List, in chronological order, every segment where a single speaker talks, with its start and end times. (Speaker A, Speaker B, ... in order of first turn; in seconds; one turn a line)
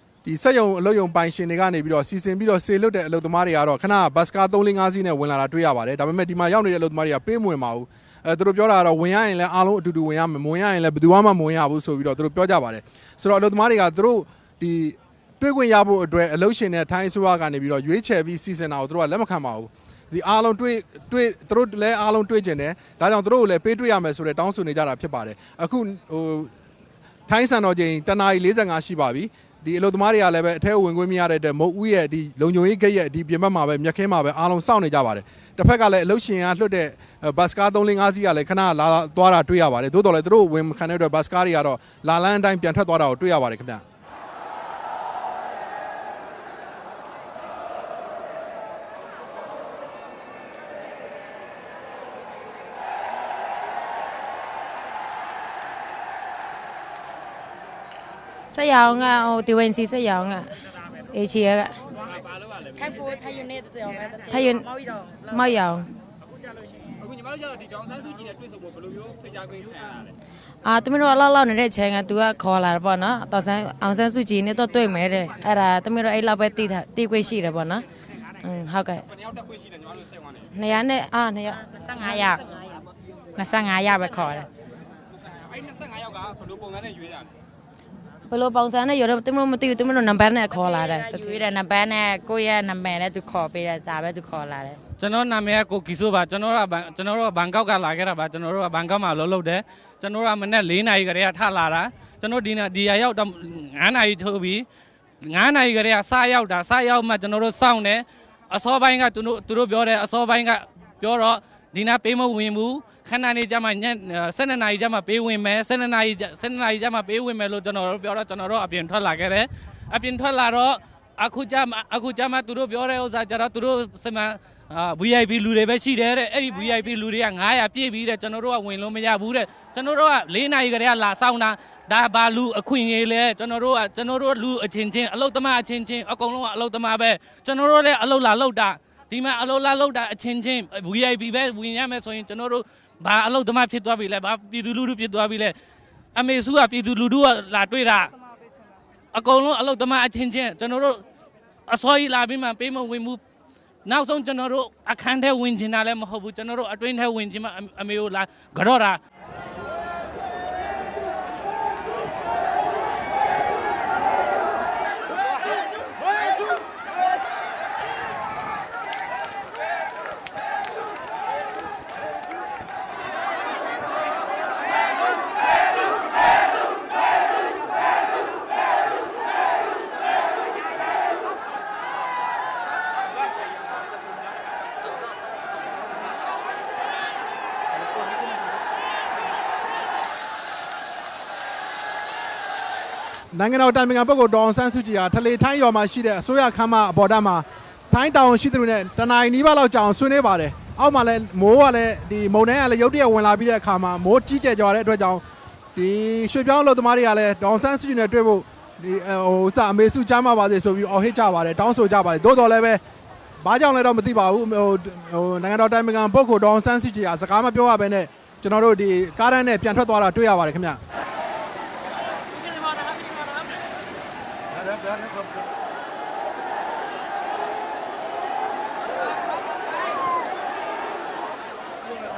Speaker A: 0.2-26.5
Speaker A: 27.3-43.8
Speaker B: 58.5-60.6
Speaker B: 61.1-61.8
Speaker C: 62.7-65.3
Speaker B: 64.3-64.7
Speaker B: 65.3-65.9
Speaker D: 67.4-69.8
Speaker B: 70.6-77.8
Speaker B: 78.4-79.1
Speaker B: 80.5-81.7
Speaker C: 81.7-82.6
Speaker C: 83.3-84.5
Speaker D: 85.7-87.2
Speaker B: 88.3-91.4
Speaker C: 90.6-94.8
Speaker E: 95.0-104.6
Speaker E: 105.2-145.5
Speaker E: 146.2-148.2
Speaker E: 149.1-151.0
Speaker E: 151.7-153.2
Speaker E: 153.8-159.0
Speaker A: 193.3-205.2
Speaker A: 205.7-212.8
Speaker A: 213.4-220.8